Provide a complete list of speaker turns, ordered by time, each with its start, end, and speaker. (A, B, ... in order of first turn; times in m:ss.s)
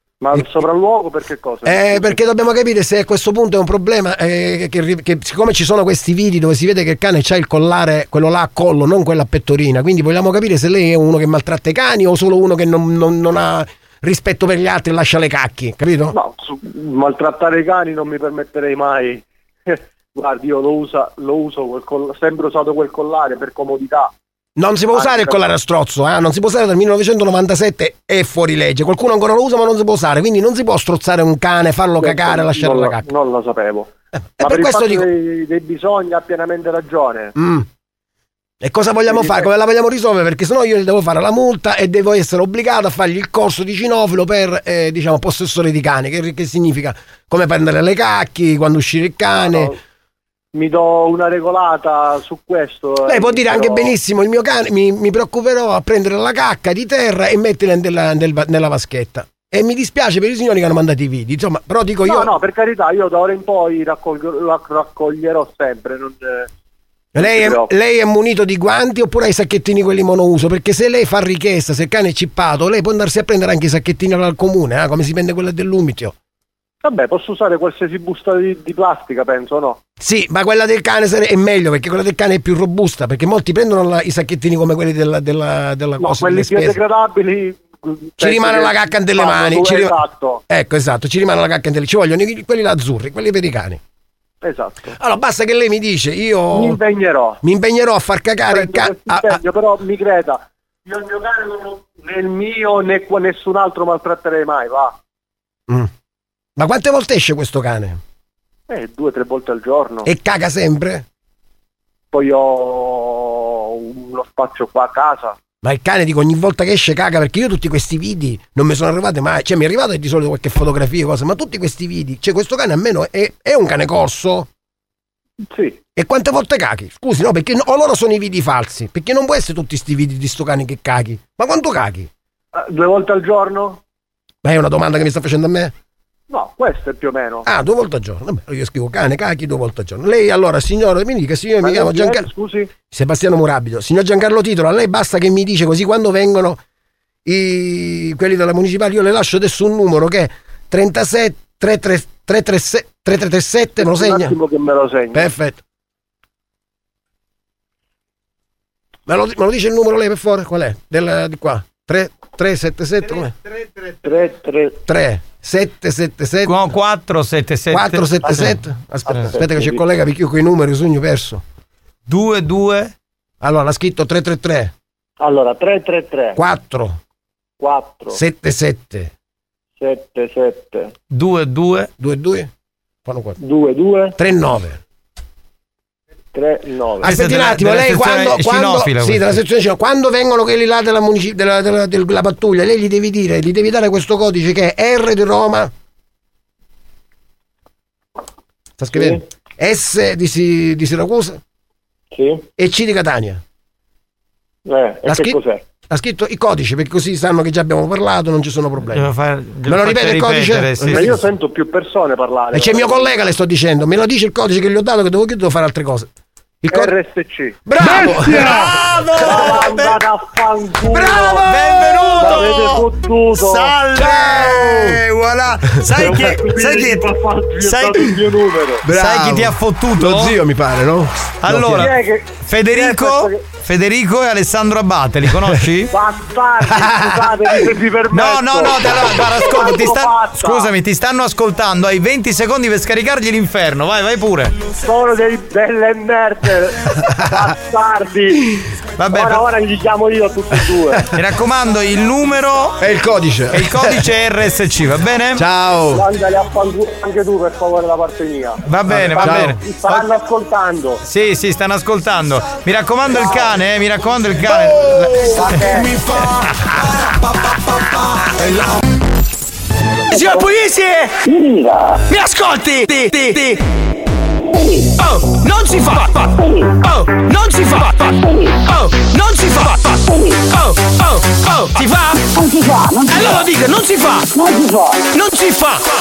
0:00.2-0:02.2 A
0:01.6-0:16.2 B
0:16.1-0:24.1 A
0:24.6-0:33.1 B
0:24.9-0:25.4 A
0:32.0-0:33.9 A
0:34.4-0:35.1 B
0:34.4-0:37.3 A
0:37.4-0:37.7 B
0:38.6-0:49.7 B
0:39.1-0:39.5 A
0:49.4-0:49.7 A
0:50.5-0:53.9 A
0:53.0-1:02.3 B
1:02.0-1:06.5 A
1:07.1-1:16.1 B
1:07.2-1:07.7 A
1:16.8-1:19.8 A
1:20.0-1:26.8 B
1:26.0-1:30.4 A
1:28.2-1:30.0 B
1:30.5-1:33.8 B
1:34.4-1:35.0 A
1:35.0-1:36.8 B
1:36.5-1:37.4 A
1:37.4-1:39.4 B
1:38.5-1:45.0 A
1:46.6-1:48.0 B
1:48.7-1:50.1 A
1:50.0-1:51.0 B
1:52.1-1:55.4 A
1:55.6-2:04.5 B
2:05.5-2:05.8 A
2:06.0-2:12.1 B
2:12.5-2:13.8 A
2:14.4-2:15.7 B
2:16.3-2:17.4 A
2:17.4-2:22.3 B
2:21.6-2:22.7 A
2:22.9-2:26.6 B
2:27.2-2:34.3 B
2:33.8-2:35.3 A
2:35.1-2:35.6 B
2:39.1-2:43.3 B
2:44.0-2:44.8 A
2:44.8-2:46.6 B
2:46.4-2:48.6 C
2:47.7-2:51.4 B
2:49.1-2:49.8 A
2:52.1-2:52.9 C
2:53.4-2:54.7 B
2:55.2-2:56.4 A
2:56.3-2:57.0 B
2:57.6-2:58.2 A
2:58.1-2:59.1 B
2:59.8-3:00.9 A
3:01.1-3:01.9 C
3:02.0-3:02.5 B
3:03.0-3:03.4 B
3:03.4-3:04.2 A
3:04.2-3:04.8 B
3:06.3-3:07.1 A
3:07.0-3:15.7 B
3:07.0-3:09.4 C
3:18.8-3:21.4 B
3:18.9-3:19.2 A
3:22.1-3:22.4 A
3:22.6-3:23.4 B
3:24.7-3:25.6 A
3:25.0-3:25.4 B
3:25.9-3:29.1 B
3:28.9-3:31.1 C
3:29.6-3:31.2 B
3:30.9-3:33.1 A
3:32.5-3:36.1 B
3:36.6-3:36.9 B
3:36.7-3:37.6 A
3:37.6-3:39.6 B
3:38.0-3:40.0 C
3:39.2-3:41.4 A
3:40.9-3:42.4 B
3:41.2-3:42.8 C
3:42.2-3:43.7 A
3:43.4-3:47.0 C
3:43.9-3:45.0 B
3:45.8-3:46.2 B
3:46.0-3:48.8 A
3:47.6-3:48.0 C
3:48.8-3:51.9 B
3:48.9-3:50.4 C
3:51.4-3:55.9 C
3:51.7-3:53.4 A
3:55.9-4:00.7 A
3:56.8-3:57.2 B
3:58.1-4:04.5 C
4:04.8-4:08.4 A
4:09.0-4:09.4 C
4:09.1-4:11.0 A
4:11.1-4:12.8 C
4:12.8-4:14.0 B
4:13.5-4:15.4 C
4:15.4-4:16.0 B
4:15.9-4:18.6 A
4:18.6-4:19.6 C
4:18.9-4:19.6 B
4:19.1-4:21.0 A
4:21.0-4:25.6 C
4:25.3-4:25.9 A
4:30.1-4:31.1 D
4:32.1-4:33.6 D
4:35.0-4:36.3 D
4:36.8-4:39.9 D
4:40.5-4:42.2 D
4:43.1-4:44.2 D
4:45.1-4:45.8 D